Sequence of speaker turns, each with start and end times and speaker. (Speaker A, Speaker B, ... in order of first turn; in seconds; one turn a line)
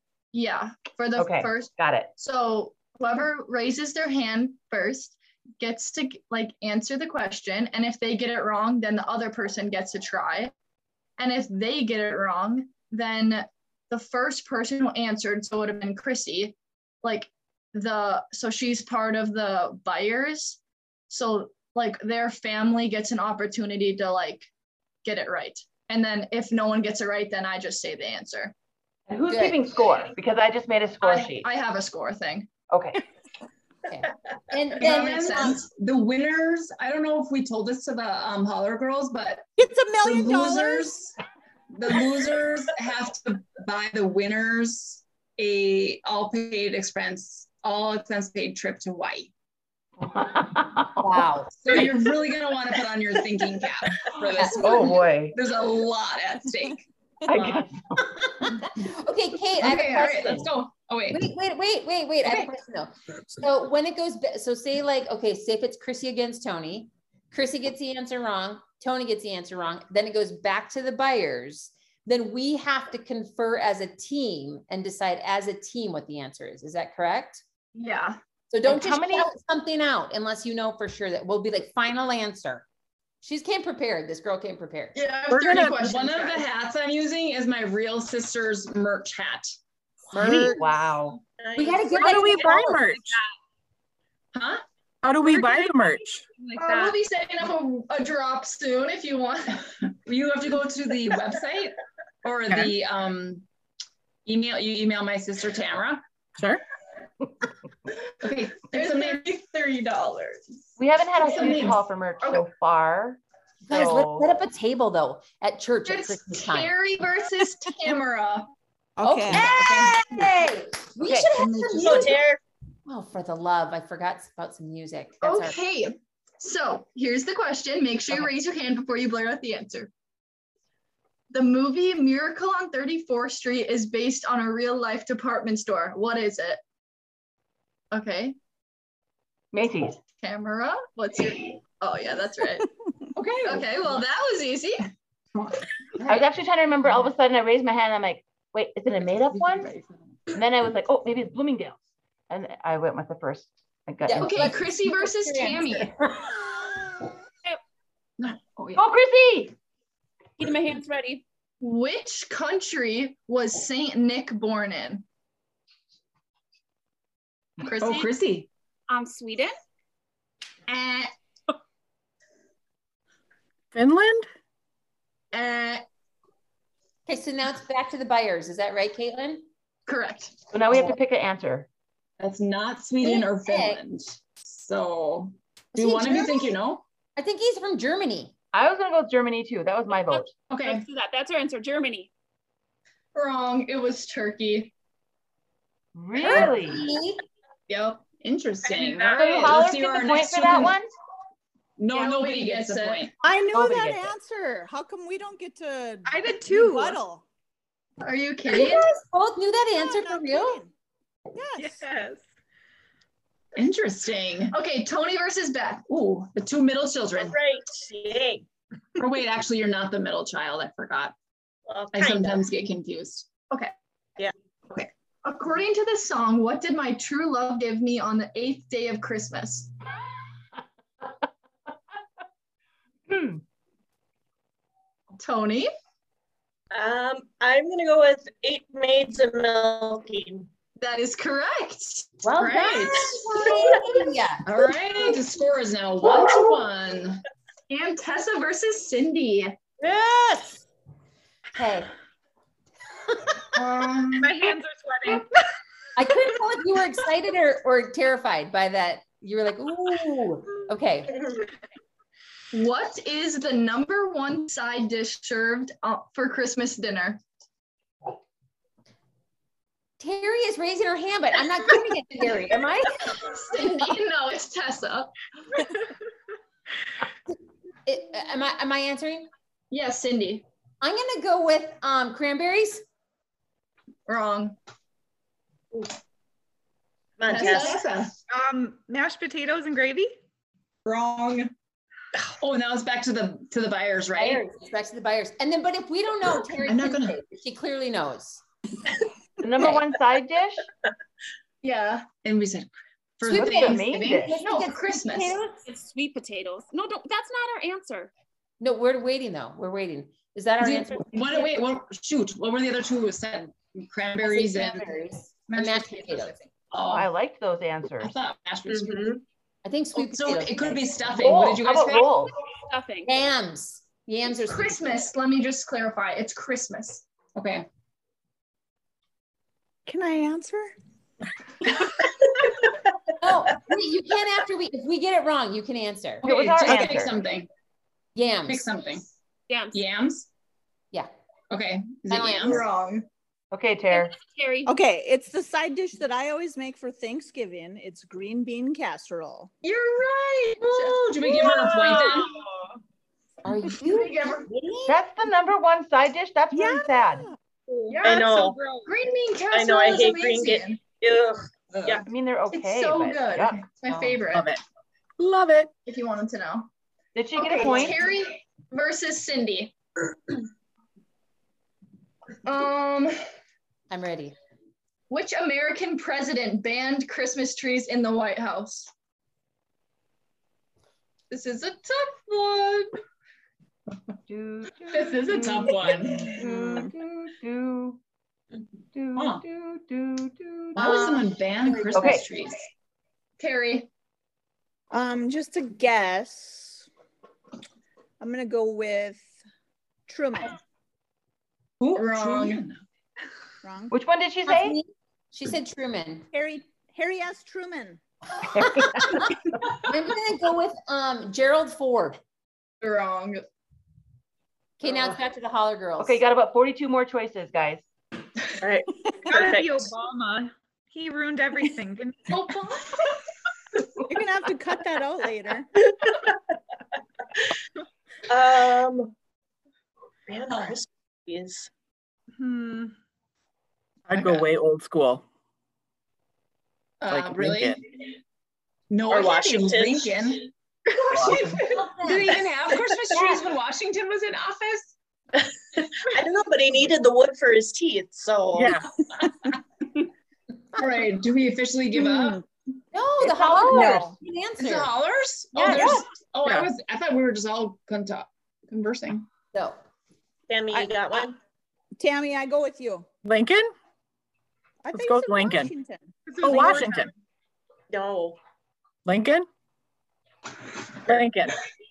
Speaker A: 0.3-10.5
Speaker B: 1.1-2.1
Speaker A: 11.2-24.5
Speaker A: 25.0-28.5
Speaker B: 29.1-31.5
Speaker C: 29.3-29.6
Speaker A: 31.0-32.5
Speaker B: 32.7-33.0
Speaker C: 33.9-35.6
Speaker D: 34.8-41.1
Speaker A: 34.8-35.6
Speaker E: 39.6-40.9
Speaker D: 41.7-49.3
Speaker B: 50.0-51.3
Speaker C: 51.0-51.9
Speaker D: 51.5-57.6
Speaker C: 54.3-55.0
Speaker B: 54.4-55.4
Speaker B: 57.3-58.0
Speaker C: 58.0-60.5
Speaker D: 59.6-61.3
Speaker C: 61.1-77.4
Speaker A: 77.7-78.2
Speaker C: 78.5-82.6
Speaker B: 78.6-79.3
Speaker C: 83.2-85.0
Speaker A: 84.9-86.5
Speaker F: 85.3-85.8
Speaker D: 85.7-89.6
Speaker E: 90.1-90.8
Speaker B: 90.1-91.2
Speaker G: 91.4-92.2
Speaker C: 91.5-92.9
Speaker F: 91.9-93.2
Speaker D: 94.3-94.6
Speaker F: 95.0-96.2
Speaker H: 95.3-96.9
Speaker A: 96.5-99.7
Speaker D: 100.0-103.4
Speaker D: 104.2-106.0
Speaker F: 106.4-106.6
Speaker D: 108.2-109.3
Speaker A: 108.6-110.4
Speaker B: 110.8-114.3
Speaker D: 111.2-111.8
Speaker A: 111.3-112.5
Speaker C: 113.7-116.7
Speaker A: 115.8-118.5
Speaker E: 119.0-120.3
Speaker C: 119.0-122.2
Speaker A: 119.3-119.9
Speaker D: 119.6-119.9
Speaker B: 121.0-121.3
Speaker E: 121.4-122.2
Speaker G: 121.8-122.4
Speaker C: 122.9-125.6
Speaker A: 125.2-129.9
Speaker A: 131.3-136.6
Speaker A: 137.9-138.3
Speaker B: 139.5-140.0
Speaker A: 140.2-142.7
Speaker D: 143.2-143.7
Speaker A: 143.4-144.9
Speaker D: 145.3-146.3
Speaker B: 146.1-149.7
Speaker D: 149.3-149.9
Speaker B: 150.3-154.7
Speaker C: 154.0-156.2
Speaker A: 154.2-155.9
Speaker D: 158.2-158.8
Speaker B: 158.7-159.5
Speaker I: 160.4-161.2
Speaker A: 161.6-165.0
Speaker A: 167.6-168.1
Speaker D: 167.8-168.5
Speaker I: 168.9-169.5
Speaker D: 170.7-171.1
Speaker F: 173.7-174.3
Speaker D: 175.3-175.8
Speaker C: 177.1-179.4
Speaker A: 179.8-180.3
Speaker B: 180.5-181.7
Speaker D: 182.2-186.8
Speaker C: 183.0-183.8
Speaker A: 185.7-186.6
Speaker C: 187.2-188.3
Speaker B: 188.5-190.3
Speaker D: 190.5-190.8
Speaker I: 190.6-192.1
Speaker A: 193.1-194.7
Speaker B: 195.9-196.9
Speaker C: 196.2-197.2
Speaker A: 197.7-198.0
Speaker D: 198.1-200.8
Speaker G: 198.6-199.7
Speaker B: 199.1-200.9
Speaker D: 201.8-203.1
Speaker A: 201.9-203.1
Speaker E: 203.2-207.2
Speaker B: 203.4-204.2
Speaker H: 206.0-207.0
Speaker A: 208.0-208.9
Speaker C: 208.5-210.6
Speaker E: 209.7-210.7
Speaker E: 211.3-211.8
Speaker H: 211.6-212.2
Speaker D: 213.6-214.5
Speaker A: 214.5-215.9
Speaker D: 215.9-217.3
Speaker G: 217.2-218.4
Speaker D: 219.0-221.1
Speaker G: 221.7-222.4
Speaker D: 221.9-223.3
Speaker A: 225.2-229.7
Speaker B: 233.1-233.4
Speaker A: 235.2-235.7
Speaker G: 236.7-240.5
Speaker A: 240.8-243.8
Speaker C: 242.2-244.5
Speaker D: 242.5-243.2
Speaker D: 244.4-247.2
Speaker A: 247.7-249.6
Speaker G: 249.8-250.5
Speaker C: 251.6-251.9
Speaker D: 253.5-254.3
Speaker H: 254.2-255.3
Speaker C: 255.9-261.2
Speaker A: 262.5-267.2
Speaker C: 270.0-273.2
Speaker A: 273.1-275.1
Speaker C: 277.9-279.3
Speaker A: 279.7-280.4
Speaker C: 280.8-282.8
Speaker A: 284.1-284.6
Speaker G: 287.2-287.8
Speaker A: 287.3-287.8
Speaker D: 287.3-288.2
Speaker H: 288.3-290.1
Speaker D: 290.8-291.5
Speaker D: 292.4-294.4
Speaker C: 294.1-298.4
Speaker D: 296.6-297.2
Speaker B: 299.4-300.7
Speaker A: 301.6-302.1
Speaker D: 302.2-304.0
Speaker C: 303.2-305.6
Speaker B: 303.3-304.4
Speaker A: 304.0-305.4
Speaker I: 305.1-308.1
Speaker C: 308.6-311.5
Speaker D: 310.6-314.9
Speaker C: 314.2-316.4
Speaker D: 315.5-317.1
Speaker B: 316.8-318.1
Speaker D: 318.0-319.1
Speaker G: 318.7-319.2
Speaker C: 319.6-320.9
Speaker D: 319.9-322.1
Speaker B: 321.1-322.3
Speaker I: 322.5-323.1
Speaker C: 323.1-325.0
Speaker A: 324.3-327.0
Speaker D: 327.3-327.6
Speaker E: 329.9-330.7
Speaker C: 333.2-336.3
Speaker D: 336.2-337.5
Speaker B: 336.2-337.1
Speaker E: 336.6-337.0
Speaker C: 338.1-338.6
Speaker D: 338.5-339.0
Speaker I: 339.5-339.8
Speaker D: 339.7-340.3
Speaker D: 341.5-342.6
Speaker C: 342.1-342.6
Speaker A: 342.3-343.1
Speaker B: 343.5-344.1
Speaker I: 343.9-344.7
Speaker E: 344.6-349.5
Speaker A: 349.6-352.2
Speaker D: 350.7-352.3
Speaker C: 353.4-355.0
Speaker A: 353.8-354.5
Speaker B: 354.9-357.3
Speaker E: 356.5-357.3
Speaker H: 357.7-358.9
Speaker A: 357.9-360.8
Speaker G: 358.0-358.6
Speaker G: 359.5-362.1
Speaker B: 362.1-363.6
Speaker A: 362.5-364.5
Speaker C: 363.9-364.2
Speaker F: 364.3-364.6
Speaker F: 365.2-365.7
Speaker A: 365.9-366.7
Speaker B: 367.1-368.1
Speaker A: 367.4-369.7
Speaker A: 372.4-373.1
Speaker C: 373.9-374.3
Speaker A: 375.1-378.9
Speaker A: 381.3-382.9
Speaker B: 384.3-388.0
Speaker D: 384.9-386.4
Speaker E: 386.3-386.9
Speaker B: 388.9-391.1
Speaker D: 389.1-389.4
Speaker D: 390.7-392.6
Speaker A: 390.8-392.1
Speaker B: 391.9-392.3
Speaker A: 393.4-393.9
Speaker E: 394.9-396.9
Speaker E: 398.2-399.4
Speaker E: 400.1-400.6
Speaker D: 401.8-402.8
Speaker A: 401.9-402.6
Speaker E: 403.6-403.9
Speaker B: 403.9-404.8
Speaker C: 404.5-406.3
Speaker E: 406.3-408.0
Speaker B: 408.5-409.2
Speaker C: 409.8-412.2
Speaker A: 412.8-413.4
Speaker C: 414.8-416.2
Speaker B: 416.0-417.8
Speaker G: 418.6-419.9
Speaker H: 419.3-422.4
Speaker A: 422.3-423.1
Speaker E: 424.1-425.7
Speaker G: 428.3-429.1
Speaker G: 430.3-431.7
Speaker H: 432.4-432.9
Speaker F: 434.1-435.2
Speaker D: 437.0-437.8
Speaker F: 437.1-437.8
Speaker D: 438.9-440.5
Speaker G: 439.1-440.4
Speaker F: 441.1-441.4
Speaker D: 441.1-444.9
Speaker C: 441.8-442.4
Speaker G: 445.8-448.8
Speaker F: 448.5-448.9
Speaker D: 450.7-452.4
Speaker E: 452.0-452.4
Speaker C: 452.9-454.9
Speaker E: 453.5-454.1
Speaker D: 454.6-459.3
Speaker C: 455.5-456.0
Speaker G: 460.5-461.3
Speaker E: 462.0-463.1
Speaker F: 463.2-463.7
Speaker E: 464.8-466.1
Speaker F: 464.9-465.7
Speaker F: 466.3-467.1
Speaker H: 466.4-467.0
Speaker G: 467.9-468.4
Speaker F: 469.1-469.5
Speaker F: 471.0-471.6